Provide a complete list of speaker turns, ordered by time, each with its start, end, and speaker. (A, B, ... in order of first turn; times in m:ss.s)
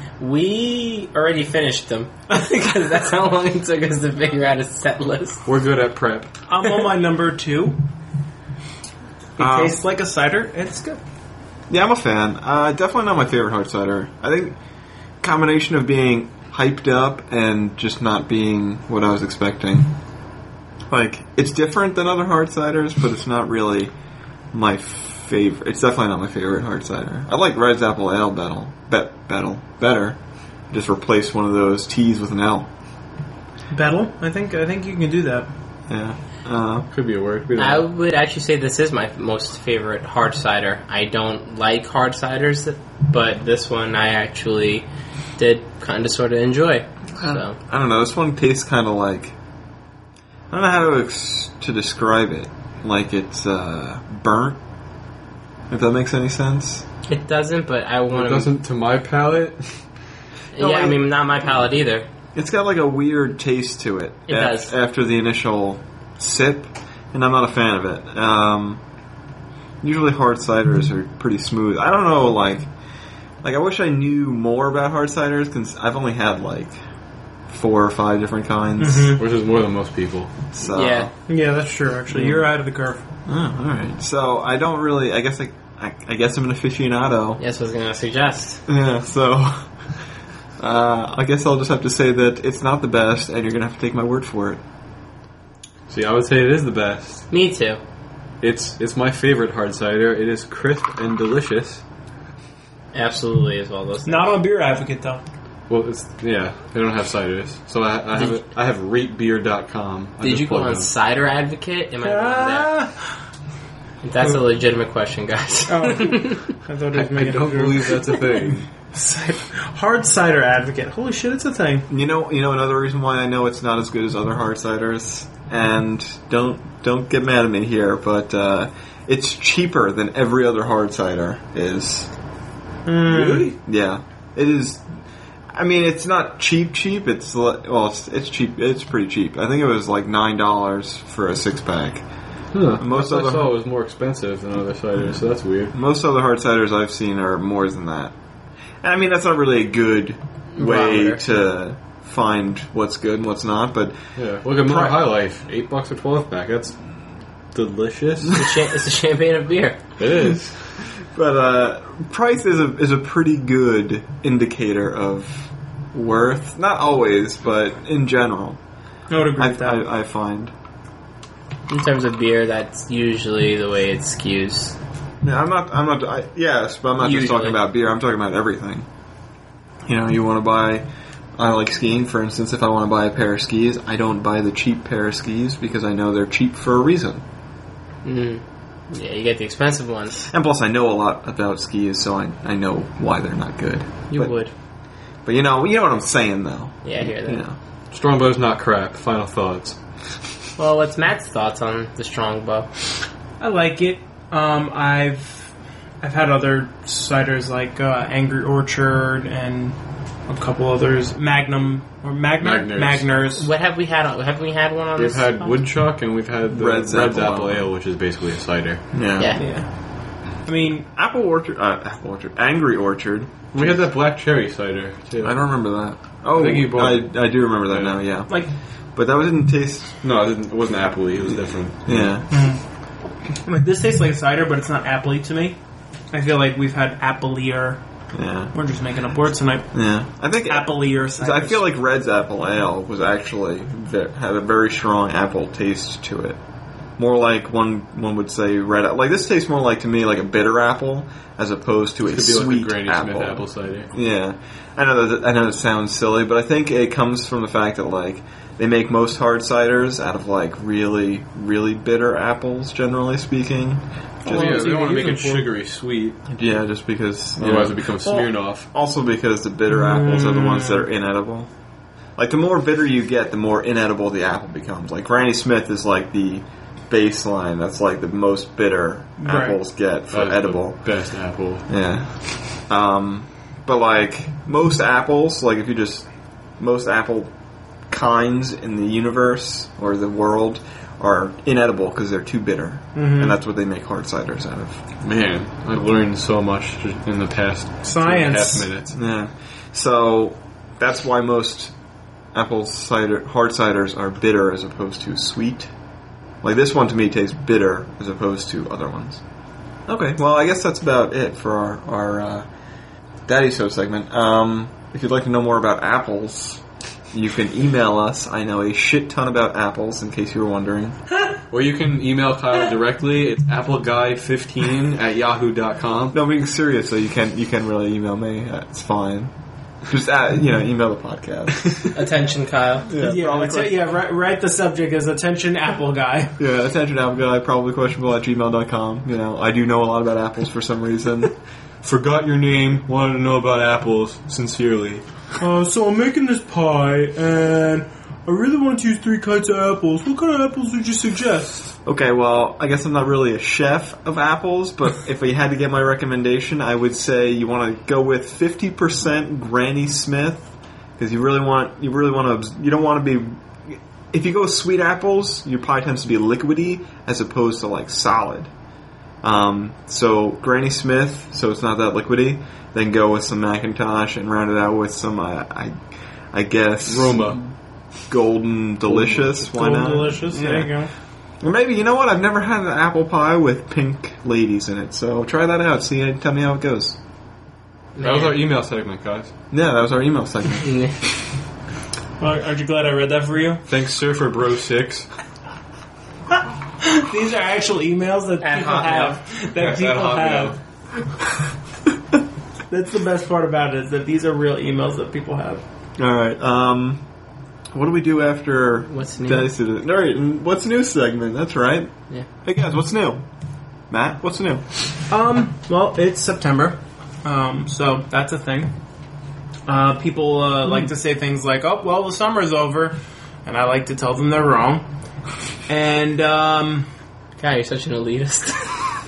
0:00.2-0:05.4 A
0:05.4-0:06.3 B
0:06.5-0:07.8 C
0:09.4-0:11.0 C
0:09.4-0:09.8 D
0:11.7-0:14.6 D
0:15.2-0:19.9 D
0:20.9-0:23.9 D
0:24.5-0:30.2 D
0:30.7-0:32.7 D
0:33.7-0:35.5 C
0:35.9-0:36.9 D
0:36.9-0:37.9 B
0:37.6-0:44.9 A
0:45.4-0:47.6 A
0:47.2-0:49.3 D
0:50.5-0:54.6 D
0:55.7-0:56.8 D
0:57.1-0:58.5 A
0:58.1-0:59.7 B
1:00.6-1:02.1 A
1:00.6-1:01.0 D
1:02.3-1:08.8 D
1:04.3-1:04.7 A
1:09.8-1:12.7 D
1:13.4-1:16.8 D
1:17.5-1:19.2 D
1:18.8-1:19.2 C
1:19.2-1:20.3 B
1:20.5-1:21.1 D
1:20.7-1:21.1 A
1:21.3-1:23.0 C
1:22.1-1:22.5 D
1:23.3-1:27.4 D
1:27.4-1:28.6 A
1:28.7-1:29.8 D
1:30.6-1:34.6 D
1:35.9-1:37.2 B
1:37.3-1:37.8 A
1:38.4-1:41.8 B
1:42.9-1:44.3 A
1:44.1-1:45.2 C
1:45.7-1:50.9 B
1:50.2-1:52.7 A
1:52.0-1:53.0 C
1:54.0-1:56.5 A
1:55.7-1:58.3 C
1:56.9-1:58.7 B
1:58.9-2:01.8 C
2:01.9-2:12.1 D
2:12.8-2:13.5 C
2:13.1-2:13.6 B
2:13.6-2:14.8 D
2:15.5-2:22.0 D
2:22.5-2:25.7 B
2:22.8-2:23.5 D
2:25.7-2:28.1 D
2:28.8-2:34.0 D
2:30.6-2:31.2 A
2:34.2-2:36.8 B
2:34.6-2:35.0 D
2:37.5-2:38.5 B
2:38.4-2:39.8 A
2:40.0-2:40.8 B
2:40.8-2:48.6 D
2:49.1-2:49.8 C
2:49.4-2:50.5 D
2:51.7-2:54.8 A
2:55.2-2:58.9 D
2:57.0-2:57.6 A
2:59.9-3:07.2 D
3:08.0-3:10.3 A
3:10.3-3:14.3 D
3:14.1-3:14.5 A
3:15.2-3:17.6 D
3:16.8-3:17.4 A
3:17.9-3:19.8 B
3:20.6-3:22.7 A
3:23.4-3:33.5 C
3:32.4-3:33.2 B
3:33.3-3:35.6 A
3:35.0-3:38.8 B
3:36.5-3:37.7 D
3:38.9-3:39.3 D
3:39.2-3:39.4 A
3:39.4-3:40.9 C
3:40.9-3:43.8 D
3:43.5-3:45.4 B
3:45.2-3:50.0 D
3:46.3-3:48.0 B
3:50.0-3:52.1 B
3:51.8-3:52.3 D
3:52.3-3:52.6 C
3:53.4-3:55.6 C
3:56.1-3:57.8 C
3:58.1-3:58.5 D
3:58.5-3:59.8 C
3:59.7-4:06.4 D
4:00.5-4:01.6 C
4:07.0-4:24.6 D
4:12.1-4:13.9 B
4:24.2-4:25.5 C
4:24.3-4:26.2 B
4:26.3-4:31.5 D
4:27.4-4:28.7 B
4:29.7-4:30.8 C
4:32.2-4:40.9 D
4:39.2-4:39.6 C
4:40.1-4:41.7 B
4:41.7-4:46.1 D
4:46.6-4:47.3 D
4:47.9-4:54.8 D
4:52.9-4:53.4 C
4:55.0-4:58.9 B
4:57.8-4:58.7 C
4:58.9-5:01.7 D
5:02.3-5:05.7 D
5:06.4-5:09.2 D
5:09.9-5:12.5 D
5:13.3-5:21.0 D
5:21.5-5:26.2 B
5:26.1-5:29.3 D
5:29.9-5:31.9 D
5:31.9-5:32.9 A
5:32.9-5:33.8 D
5:33.0-5:36.4 C
5:36.4-5:41.3 D
5:41.8-5:45.0 B
5:45.4-5:51.7 C
5:51.8-6:08.5 D
6:09.2-6:15.8 D
6:16.3-6:17.4 D
6:16.9-6:17.5 B
6:18.1-6:20.8 D
6:18.9-6:19.2 B
6:19.4-6:20.9 C
6:21.4-6:27.0 D
6:28.0-6:28.4 A
6:28.0-6:29.3 B
6:29.5-6:30.9 D
6:30.6-6:31.0 A
6:32.2-6:33.6 C
6:33.7-6:35.1 B
6:36.8-6:40.6 C
6:38.4-6:39.2 A
6:39.6-6:40.6 B
6:42.7-6:45.6 C
6:46.0-6:47.0 D
6:47.7-6:51.9 D
6:48.9-6:49.5 A
6:52.4-6:53.2 D
6:53.9-6:54.6 D
6:55.1-6:58.7 C
6:59.7-7:04.8 C
7:05.7-7:06.9 C
7:07.4-7:08.8 A